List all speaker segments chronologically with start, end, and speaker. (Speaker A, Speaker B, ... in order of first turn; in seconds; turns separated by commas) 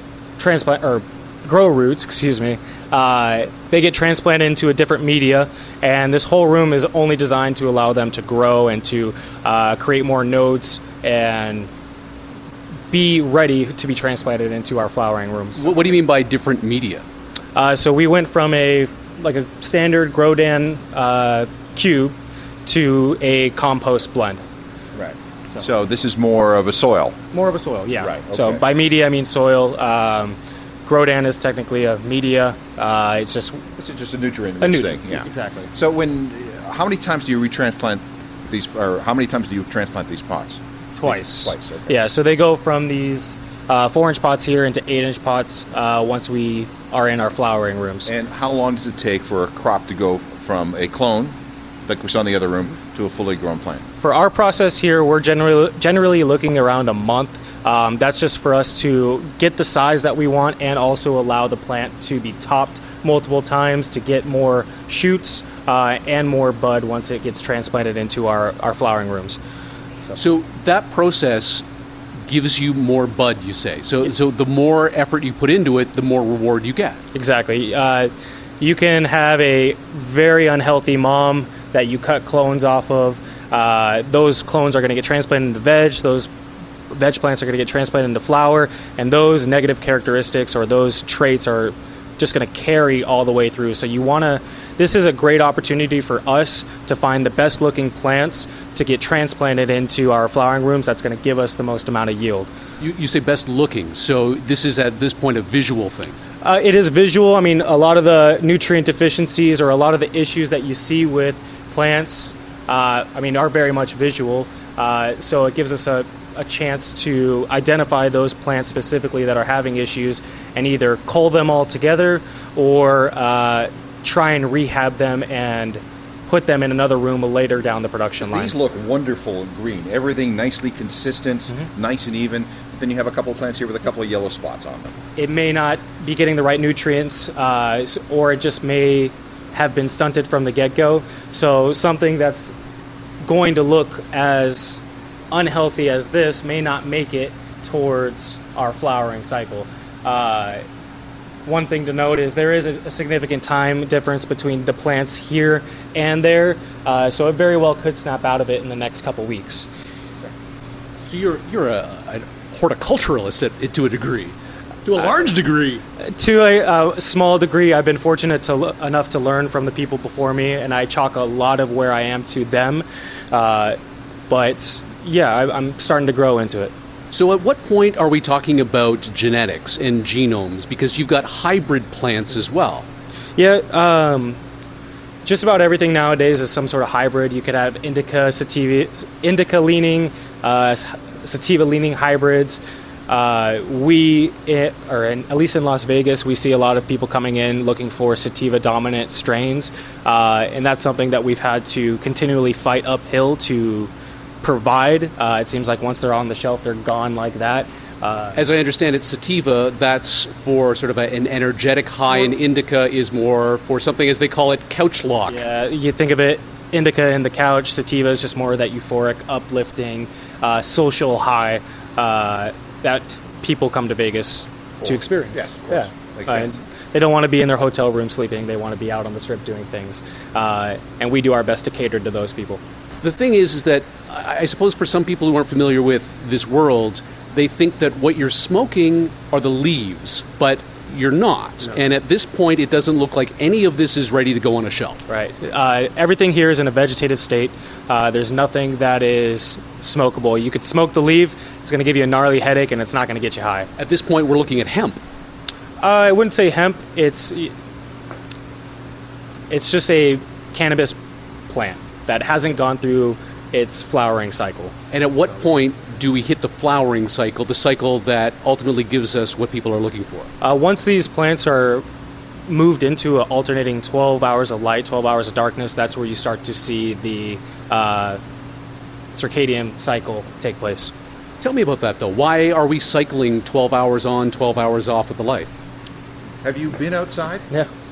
Speaker A: 0.4-11.7, Speaker A: 12.9-15.6, Speaker B: 15.6-17.0, Speaker A: 17.5-24.4, Speaker C: 24.9-27.2, Speaker A: 27.3-33.6, Speaker C: 28.0-28.6, Speaker C: 33.8-41.9, Speaker A: 34.6-35.7, Speaker A: 40.9-48.1, Speaker C: 48.0-53.9, Speaker A: 54.0-69.4, Speaker B: 70.2-71.6, Speaker B: 72.3-77.0, Speaker A: 77.1-86.3, Speaker A: 86.9-102.5, Speaker B: 102.8-106.2, Speaker A: 106.4-128.5, Speaker C: 128.2-134.9, Speaker A: 135.2-142.5, Speaker A: 143.2-144.8, Speaker A: 145.3-150.6, Speaker A: 151.4-159.7, Speaker B: 161.1-164.3, Speaker B: 164.8-165.8, Speaker A: 166.2-173.8, Speaker A: 174.3-176.7, Speaker B: 177.1-182.8, Speaker A: 183.3-184.4, Speaker A: 185.2-203.9, Speaker A: 204.4-208.4, Speaker B: 208.3-215.4, Speaker A: 215.3-232.6, Speaker C: 224.8-226.6, Speaker B: 233.0-245.0, Speaker A: 245.1-253.7, Speaker B: 253.8-255.0, Speaker A: 255.8-257.5, Speaker A: 259.5-264.7, Speaker B: 264.9-270.3, Speaker A: 270.4-271.8, Speaker A: 272.5-278.2, Speaker A: 279.1-280.9, Speaker B: 281.4-285.5, Speaker C: 286.4-287.5